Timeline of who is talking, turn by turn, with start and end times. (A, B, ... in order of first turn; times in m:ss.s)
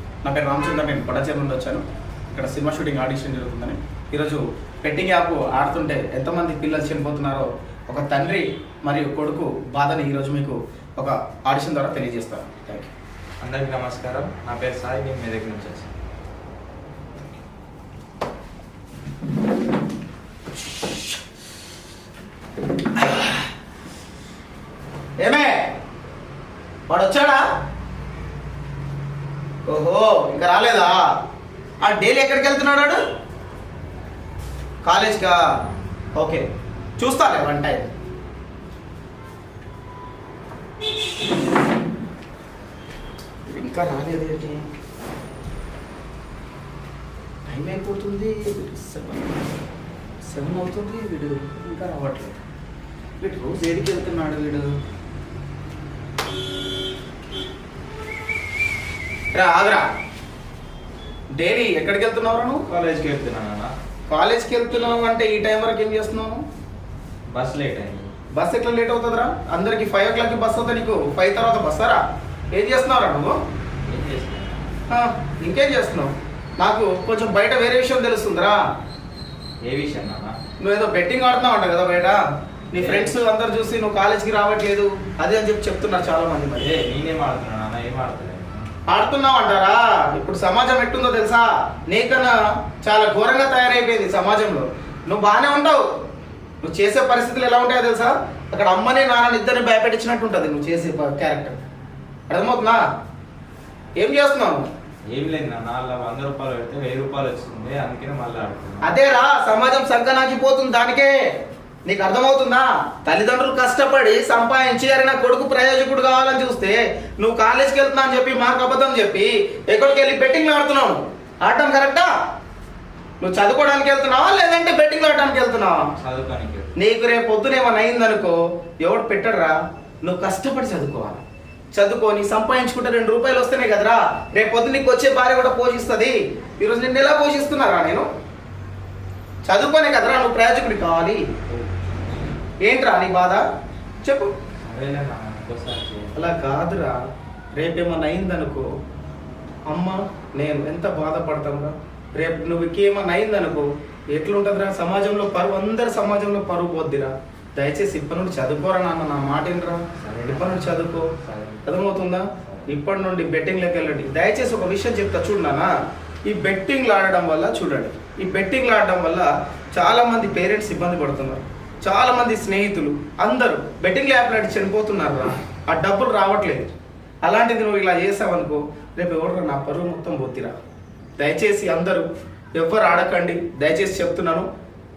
0:00.2-0:12.9 A
0:13.4-0:15.9 B
0:25.2-0:25.7 A
0:26.9-0:27.4 A
0:29.7-0:31.0 A
0:31.8-0:33.0 A
0:34.8-0:35.5 A
0:36.2-0:36.4 A
0:37.0-0:37.9 A
0:43.5-0:44.6 A
0:47.5-0:49.3 A
0:50.3-0:52.4 A
0:53.2-0:54.7 A
0:59.3-0:59.8 A
1:01.4-1:02.6 A
1:02.7-1:03.7 B
1:04.1-1:06.4 A
1:07.3-1:08.1 B
1:08.3-1:12.0 A
1:12.5-1:13.4 A
1:13.8-1:14.6 B
1:14.9-1:18.6 A
1:19.6-1:20.3 B
1:20.6-1:22.2 A
1:22.7-1:26.7 A
1:22.7-1:23.1 B
1:26.6-1:28.7 B
1:28.9-1:35.8 A
1:36.6-1:41.6 A
1:42.3-1:42.8 A
1:44.0-1:44.7 A
1:45.1-1:48.9 B
1:48.8-1:51.1 A
1:51.9-2:02.1 A
2:03.2-2:05.9 A
2:06.0-2:06.7 B
2:06.8-2:11.2 A
2:11.7-2:18.0 A
2:19.4-2:21.2 A
2:22.6-2:23.4 A
2:24.0-2:24.3 A
2:24.6-2:26.2 B
2:26.1-2:27.0 A
2:27.6-2:28.7 A
2:29.7-2:41.1 A
2:40.0-2:41.6 B
2:41.6-2:45.7 A
2:42.4-2:42.7 B
2:46.3-2:56.7 A
2:57.2-3:00.5 A
3:01.2-3:04.5 A